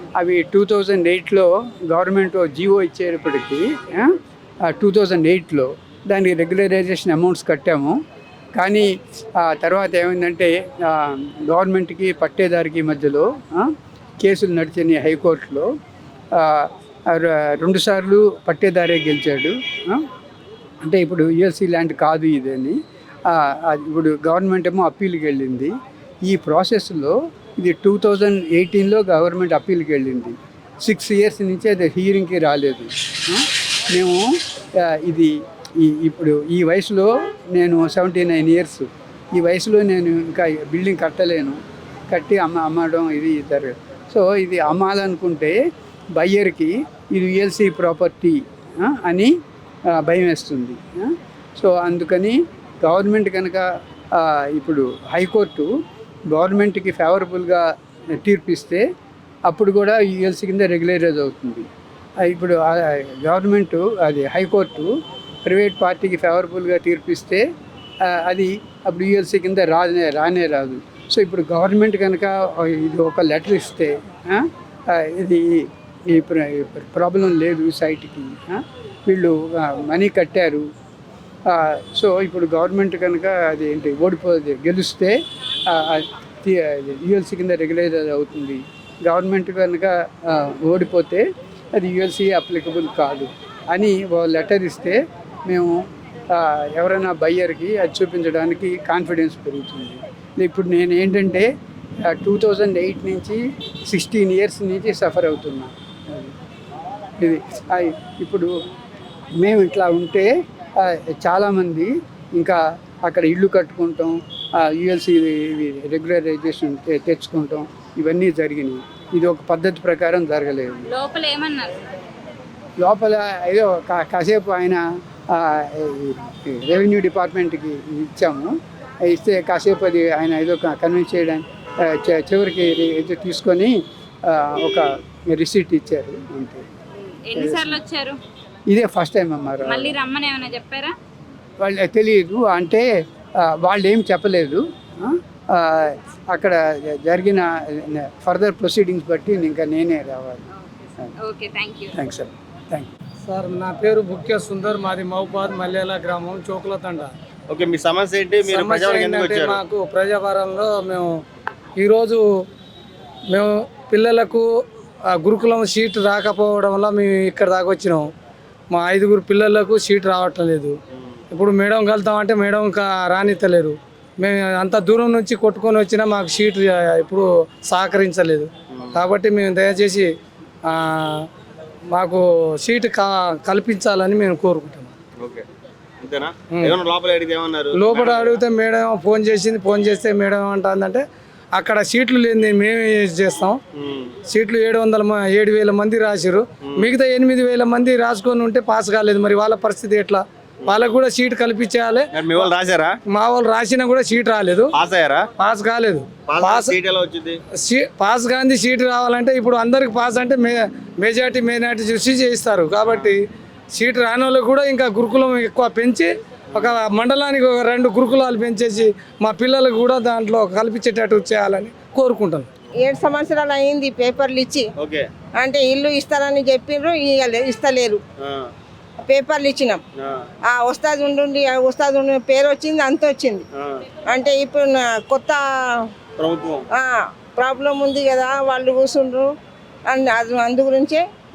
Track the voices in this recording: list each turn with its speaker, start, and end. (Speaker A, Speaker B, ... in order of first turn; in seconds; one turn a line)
Speaker A: 0.1-8.0
Speaker A: 8.6-15.7
Speaker A: 16.3-20.0
Speaker A: 20.8-22.8
Speaker A: 23.3-25.7
Speaker A: 26.2-34.3
Speaker A: 34.9-45.6
Speaker A: 46.1-49.3
Speaker A: 49.9-55.7
Speaker A: 56.3-58.8
Speaker A: 59.5-61.7
Speaker A: 62.2-64.9
Speaker A: 65.5-67.4
Speaker A: 68.1-80.7
Speaker A: 81.5-85.2
Speaker A: 85.7-91.2
Speaker A: 91.8-95.8
Speaker A: 96.3-101.5
Speaker A: 102.1-106.3
Speaker A: 107.2-108.5
Speaker A: 109.4-121.0
Speaker B: 121.0-121.7
Speaker A: 122.8-128.5
Speaker A: 129.0-133.7
Speaker A: 134.3-136.7
Speaker B: 137.1-138.2
Speaker A: 137.3-137.8
Speaker A: 138.7-140.0
Speaker B: 139.9-140.9
Speaker A: 141.6-142.8
Speaker A: 143.5-150.4
Speaker B: 151.3-151.9
Speaker A: 151.9-152.9
Speaker C: 153.3-157.1
Speaker D: 157.5-159.6
Speaker C: 158.5-161.1
Speaker C: 161.8-162.2
Speaker C: 163.3-164.4
Speaker C: 165.2-168.0
Speaker C: 168.7-170.7
Speaker D: 170.9-171.2
Speaker C: 171.3-180.1
Speaker D: 178.7-179.0
Speaker C: 180.7-181.1
Speaker C: 181.9-184.9
Speaker D: 185.2-185.4
Speaker D: 186.0-188.4
Speaker C: 187.8-191.0
Speaker C: 191.6-193.6
Speaker D: 193.7-194.1
Speaker C: 194.3-202.1
Speaker D: 202.1-203.0
Speaker C: 203.1-204.7
Speaker D: 204.7-205.2
Speaker C: 205.4-206.7
Speaker D: 206.3-207.4
Speaker C: 207.7-213.2
Speaker D: 212.8-213.1
Speaker C: 213.8-222.4
Speaker D: 216.5-216.8
Speaker E: 222.8-224.7
Speaker D: 224.8-225.1
Speaker E: 225.4-228.0
Speaker D: 228.2-228.5
Speaker E: 229.1-229.8
Speaker E: 230.5-233.4
Speaker D: 233.5-233.8
Speaker E: 234.1-235.4
Speaker D: 236.2-236.6
Speaker E: 236.7-239.3
Speaker E: 239.9-241.0